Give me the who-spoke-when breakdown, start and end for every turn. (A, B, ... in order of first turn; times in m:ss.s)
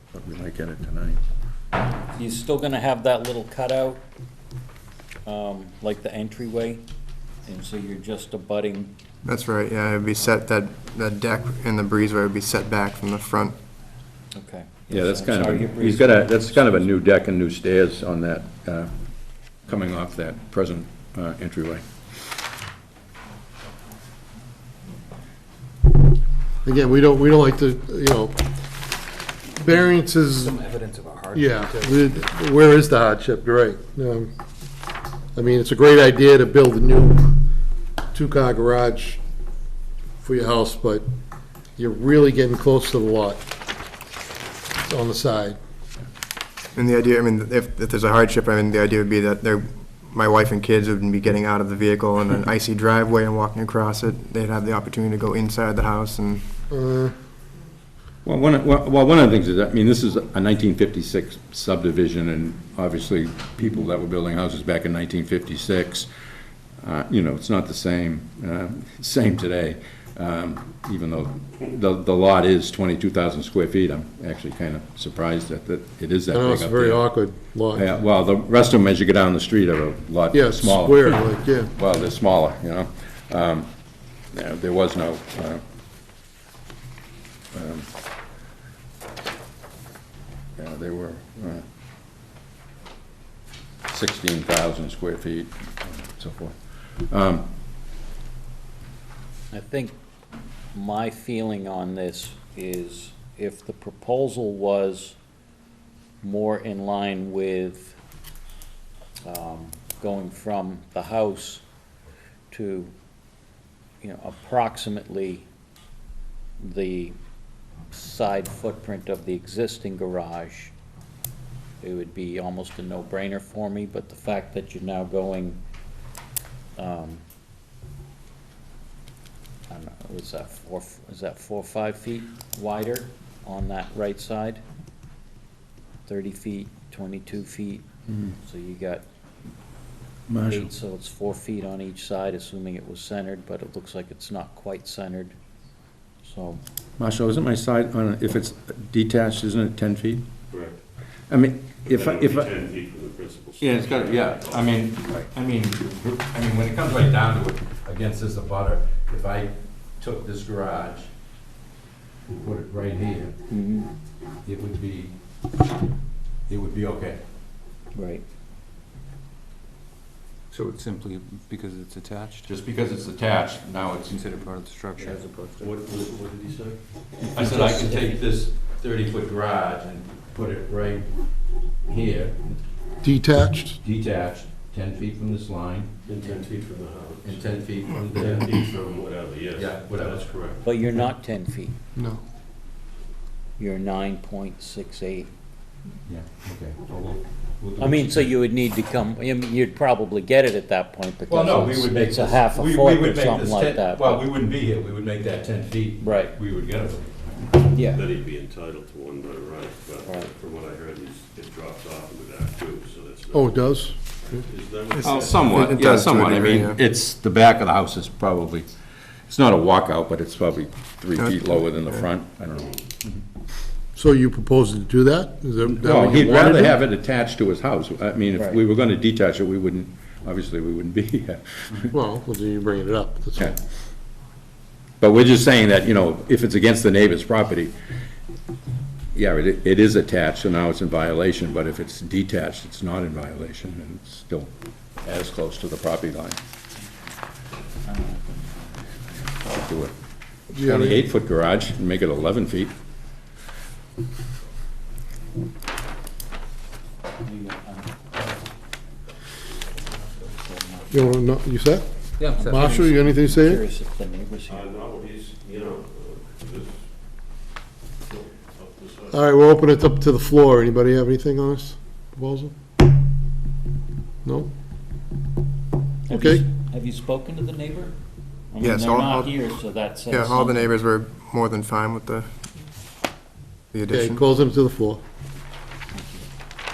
0:00.1-0:01.2 A
0:02.1-0:04.0 B
0:05.2-0:06.8 B
0:07.4-0:08.9 B
0:09.2-0:13.5 C
0:14.3-0:16.9 B
0:14.9-0:18.9 A
0:19.6-0:21.8 A
0:26.6-0:28.4 D
0:29.5-0:30.6 D
0:30.3-0:32.3 E
0:31.3-0:34.3 D
0:35.3-0:37.3 D
0:38.1-0:39.2 D
0:40.2-0:41.0 D
0:41.8-0:43.4 D
0:44.8-0:45.6 D
0:46.7-0:56.5 C
0:56.7-0:57.1 D
0:58.2-1:06.1 A
1:06.8-1:17.1 A
1:16.3-1:17.9 D
1:17.7-1:23.7 A
1:20.3-1:21.7 D
1:24.3-1:25.6 A
1:27.5-1:27.9 A
1:30.6-1:31.6 A
1:33.9-1:37.5 A
1:39.5-1:39.9 B
1:40.7-1:45.2 B
1:46.2-1:48.0 B
1:49.2-1:51.6 B
1:52.5-1:52.9 B
1:54.0-1:55.5 B
1:56.6-1:57.2 B
1:57.9-2:00.7 B
2:01.8-2:05.6 B
2:06.8-2:07.2 B
2:09.7-2:14.6 B
2:16.0-2:17.8 B
2:18.4-2:19.0 B
2:20.3-2:20.7 A
2:20.5-2:25.3 B
2:26.2-2:26.6 B
2:27.0-2:30.3 A
2:30.5-2:30.8 F
2:31.3-2:32.5 A
2:31.8-2:34.8 F
2:33.6-2:41.1 A
2:42.4-2:43.4 A
2:43.5-2:43.9 B
2:44.4-2:45.1 A
2:46.5-2:47.2 A
2:47.9-2:48.2 B
2:50.5-2:52.5 E
2:52.4-2:54.4 A
2:54.1-2:55.7 E
2:55.0-2:56.8 F
2:57.3-2:58.2 B
2:57.3-3:01.1 A
3:01.9-3:02.6 A
3:03.0-3:03.8 D
3:03.8-3:06.4 A
3:06.0-3:10.6 F
3:07.2-3:08.5 A
3:09.5-3:10.5 A
3:10.6-3:11.7 B
3:12.0-3:12.2 D
3:13.6-3:15.3 B
3:16.1-3:18.3 A
3:17.8-3:24.3 B
3:21.3-3:27.6 A
3:26.0-3:26.4 B
3:27.7-3:28.0 B
3:27.8-3:36.6 F
3:33.3-3:34.4 D
3:34.9-3:36.8 C
3:35.0-3:38.7 A
3:39.3-3:43.2 A
3:41.2-3:42.0 C
3:44.0-3:46.8 D
3:45.6-3:51.9 A
3:48.3-3:48.6 B
3:51.9-3:53.6 D
3:55.0-3:57.7 A
3:59.1-4:04.5 A
4:05.0-4:06.4 A
4:07.8-4:09.1 B
4:09.4-4:09.9 A
4:10.5-4:11.1 D
4:10.5-4:12.7 A
4:17.2-4:18.4 B
4:20.1-4:21.2 B
4:20.9-4:23.6 D
4:22.2-4:22.6 E
4:22.3-4:24.7 B
4:24.5-4:26.9 F
4:28.0-4:29.2 F
4:29.1-4:32.5 D
4:34.2-4:34.5 D
4:36.1-4:37.9 B
4:36.1-4:36.4 D
4:38.5-4:40.7 B
4:38.6-4:39.3 C
4:40.1-4:42.3 C
4:43.7-4:44.2 C
4:43.9-4:45.0 D
4:45.9-4:46.2 B